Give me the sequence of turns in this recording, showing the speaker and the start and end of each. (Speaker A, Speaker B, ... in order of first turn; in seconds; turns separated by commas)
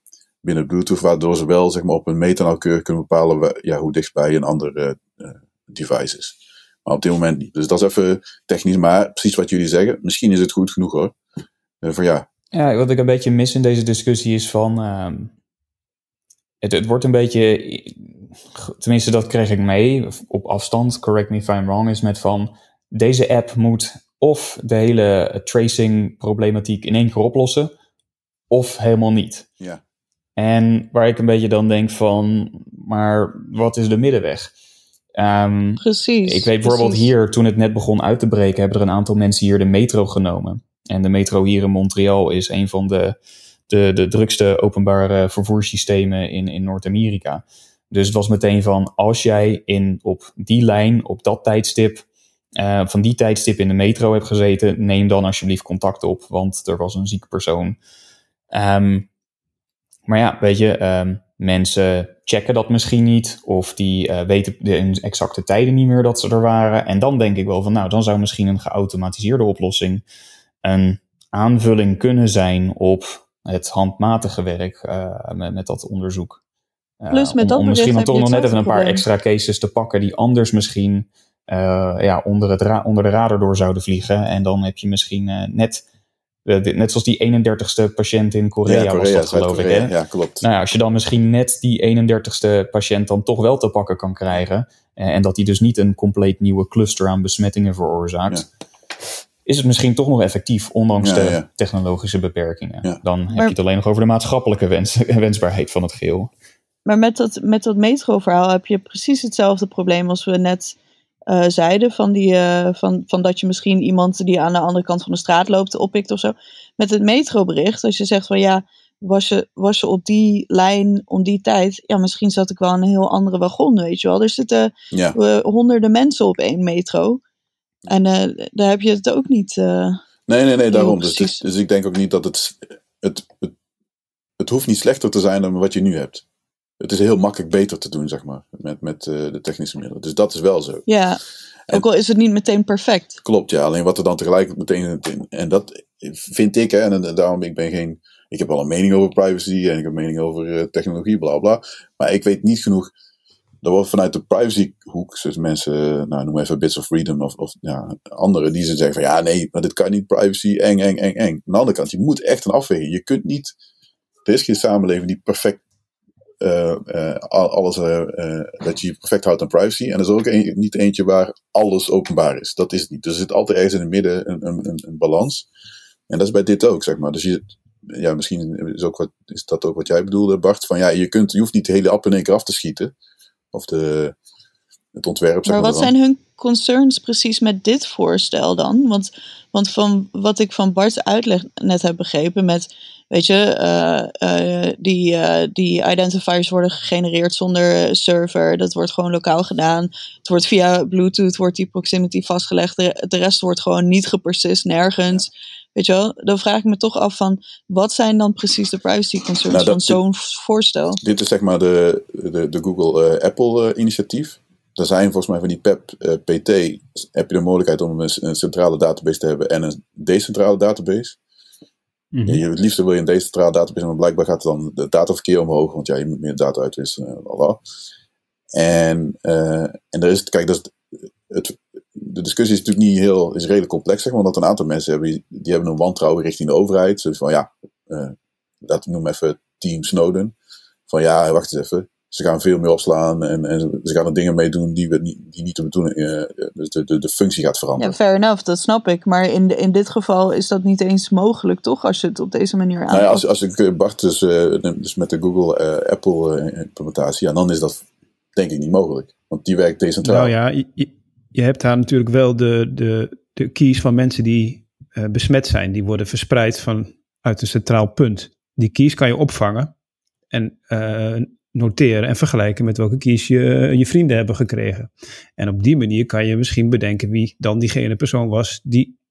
Speaker A: 0.4-11.1, Speaker A: 11.8-12.3, Speaker B: 12.5-15.3, Speaker B: 16.6-27.7, Speaker B: 28.5-29.5, Speaker B: 30.4-34.5, Speaker B: 35.2-43.2, Speaker C: 35.8-37.1, Speaker B: 43.7-52.0, Speaker B: 52.6-57.8, Speaker B: 58.5-59.1, Speaker B: 60.1-70.0, Speaker B: 70.6-76.4, Speaker B: 77.0-85.8, Speaker C: 77.1-79.0, Speaker B: 86.5-98.5, Speaker A: 88.7-90.5, Speaker B: 99.5-106.3, Speaker A: 101.0-101.5, Speaker C: 106.8-110.8, Speaker C: 111.3-127.2, Speaker A: 124.9-125.2, Speaker C: 127.9-130.0, Speaker A: 130.3-133.5, Speaker C: 130.7-131.4, Speaker A: 134.4-136.2, Speaker A: 136.8-140.9, Speaker C: 140.9-143.2, Speaker A: 143.2-152.9, Speaker A: 153.6-163.5, Speaker A: 164.2-165.6, Speaker A: 166.4-175.5, Speaker A: 176.1-182.9, Speaker A: 183.5-184.2, Speaker A: 184.9-185.9, Speaker C: 185.4-211.0, Speaker A: 209.5-210.0, Speaker A: 211.0-221.2, Speaker D: 222.1-222.4, Speaker A: 222.3-227.6, Speaker A: 228.5-240.3, Speaker A: 240.9-248.0, Speaker C: 247.8-253.2, Speaker A: 252.9-257.8, Speaker A: 258.4-260.3, Speaker D: 260.0-269.7, Speaker D: 270.3-279.0